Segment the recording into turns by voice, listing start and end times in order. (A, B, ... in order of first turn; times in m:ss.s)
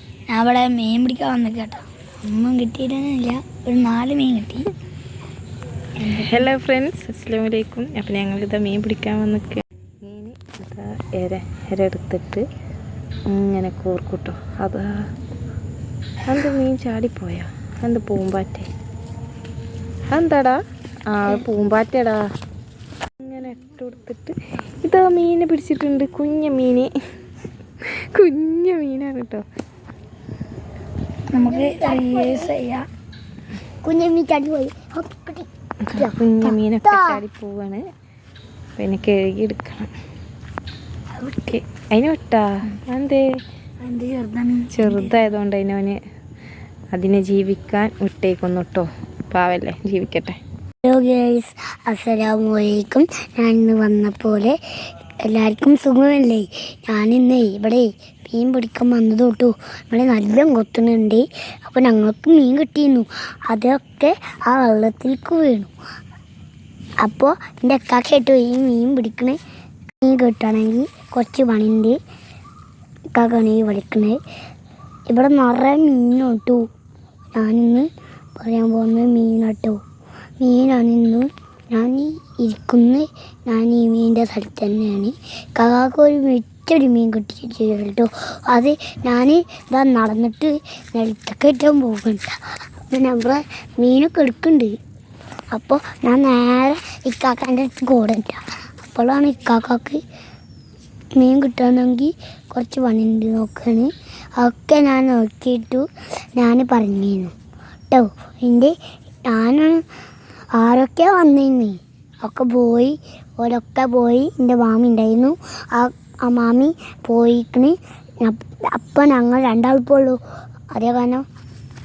0:00.3-0:04.7 A
0:06.0-0:06.5 A
0:06.1-0:12.4 B
0:13.3-0:14.9 B
0:16.2-0:18.7 B
0:20.1-0:22.2 B
0:23.2-0:26.9 B
0:27.8-0:29.4 B
0:31.3-0:32.8 A
0:31.4-0:32.5 C
0:33.8-0:37.2 C
0:35.8-0:37.8 B
0:38.8-0:39.9 B
0:41.2-0:41.6 A
0:41.4-0:43.2 B
0:43.8-0:45.3 A
0:44.7-0:46.0 B
0:46.9-0:50.4 B
0:50.8-0:54.6 C
0:55.2-1:05.7 C
1:07.0-1:09.4 C
1:10.0-1:12.0 C
1:13.1-1:14.2 C
1:15.1-1:16.6 C
1:17.4-1:17.9 C
1:18.4-1:19.8 C
1:20.4-1:32.3 C
1:32.9-1:34.7 C
1:35.5-1:40.0 C
1:41.2-1:45.8 C
1:46.4-1:47.3 C
1:47.9-1:48.7 C
1:49.3-1:49.8 C
1:50.6-2:00.2 C
2:00.7-2:01.2 C